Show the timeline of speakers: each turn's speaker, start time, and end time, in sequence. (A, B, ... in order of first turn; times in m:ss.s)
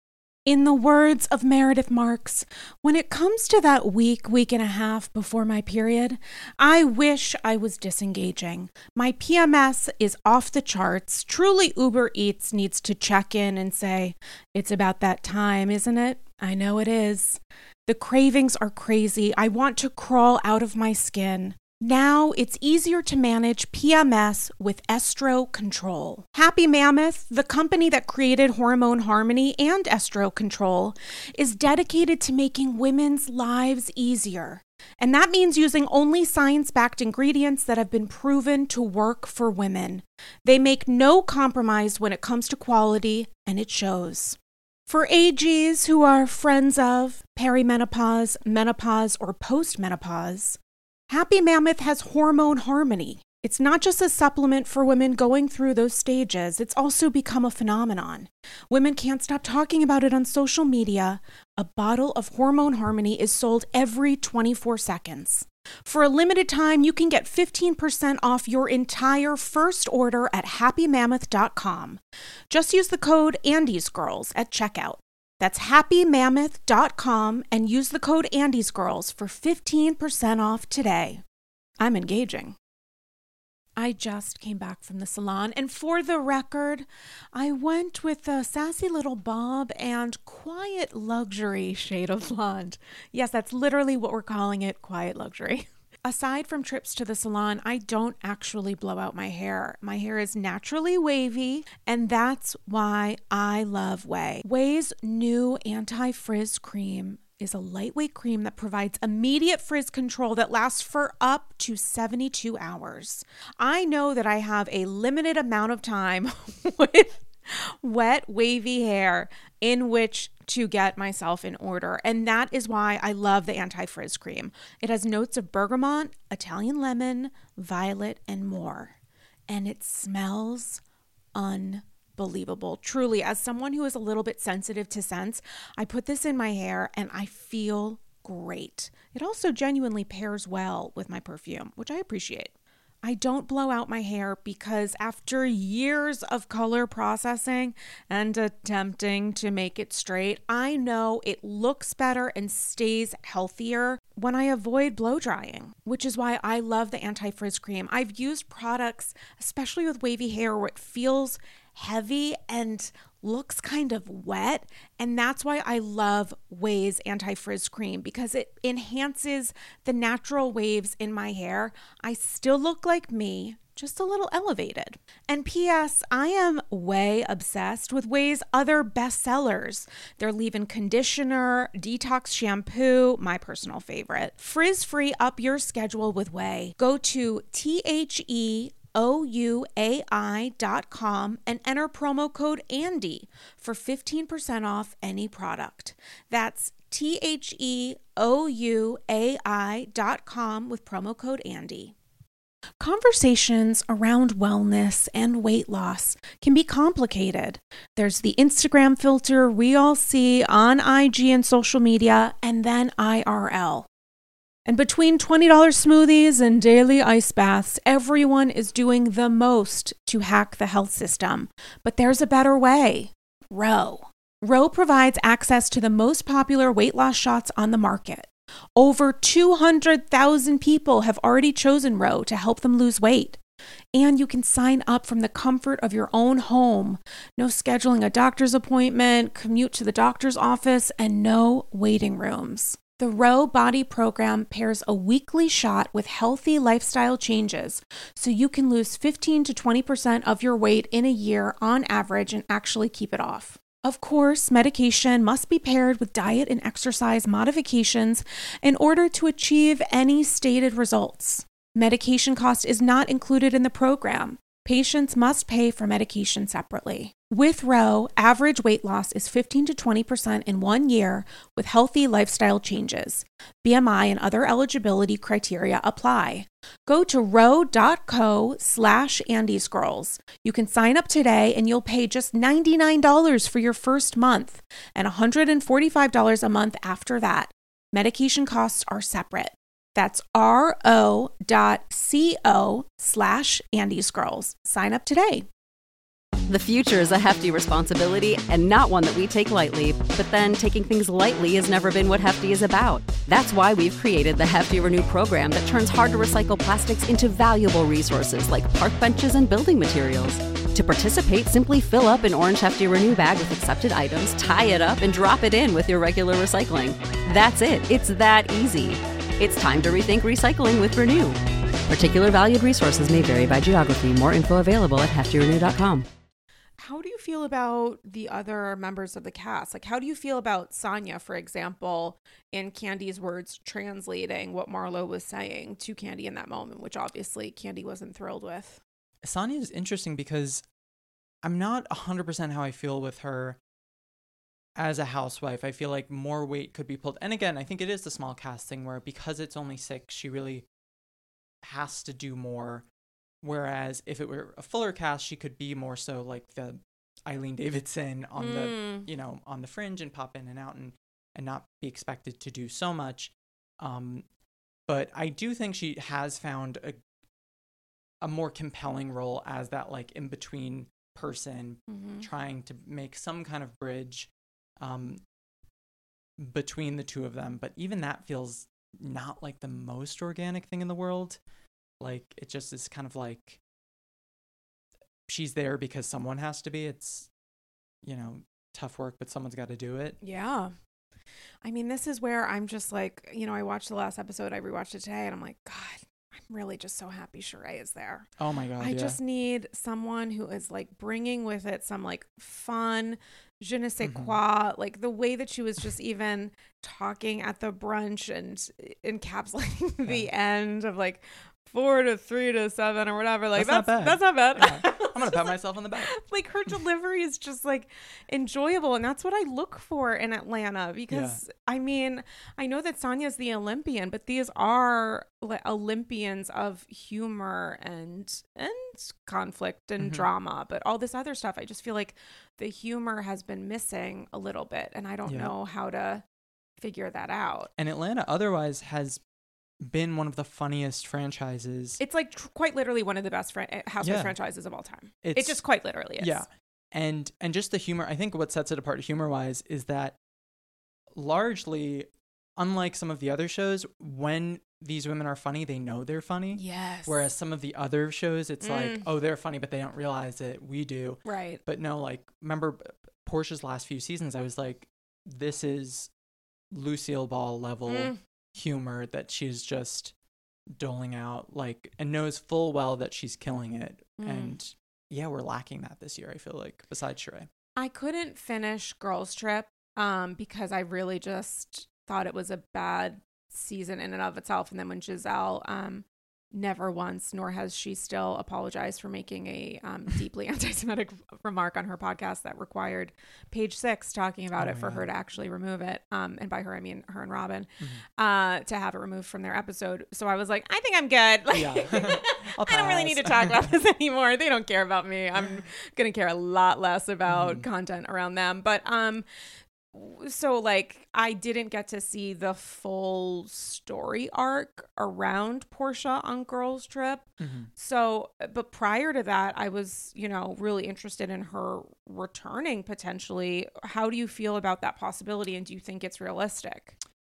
0:00.5-0:50.6 A
0:51.1-1:12.0 A
1:12.5-1:21.2 A
1:21.8-1:22.6 A
1:23.8-2:09.0 A
2:09.5-2:10.8 A
2:11.4-2:22.5 A
2:23.0-3:21.9 A
3:22.8-3:33.9 A
3:34.7-3:53.4 A
3:54.0-4:55.5 A
4:56.5-5:26.1 B
5:26.8-5:38.8 A
5:39.2-5:40.6 C
5:41.4-5:43.6 C
5:44.8-5:50.7 C
5:51.6-5:52.9 C
5:53.4-6:04.3 C
5:58.4-5:59.1 A
6:04.9-6:07.0 C
6:08.2-6:14.3 C
6:11.9-6:12.3 A
6:14.8-6:15.2 C
6:16.4-6:21.4 C
6:22.0-6:23.6 C
6:25.3-6:27.3 C
6:28.0-6:30.2 C
6:30.2-6:30.7 A
6:31.6-7:16.2 A
6:38.4-6:39.2 C
6:44.0-6:44.3 C
6:53.6-6:56.1 C
7:01.1-7:01.4 C
7:10.0-7:10.3 C
7:15.3-7:15.5 C
7:16.8-7:17.7 A
7:17.8-7:19.2 C
7:19.8-7:22.0 C
7:22.0-7:26.5 A
7:24.0-7:24.4 C
7:25.2-7:25.6 C
7:26.2-7:30.2 C
7:31.2-7:46.1 C
7:36.6-7:37.3 A
7:38.6-7:39.1 A
7:41.2-7:41.6 A
7:46.7-7:50.1 C
7:47.9-7:48.2 A
7:50.7-7:57.5 C
7:54.2-7:54.6 A
7:57.8-8:29.3 A
8:14.6-8:15.1 C
8:21.5-8:23.7 C
8:27.3-8:27.6 C
8:29.9-8:47.0 A
8:37.4-8:37.7 C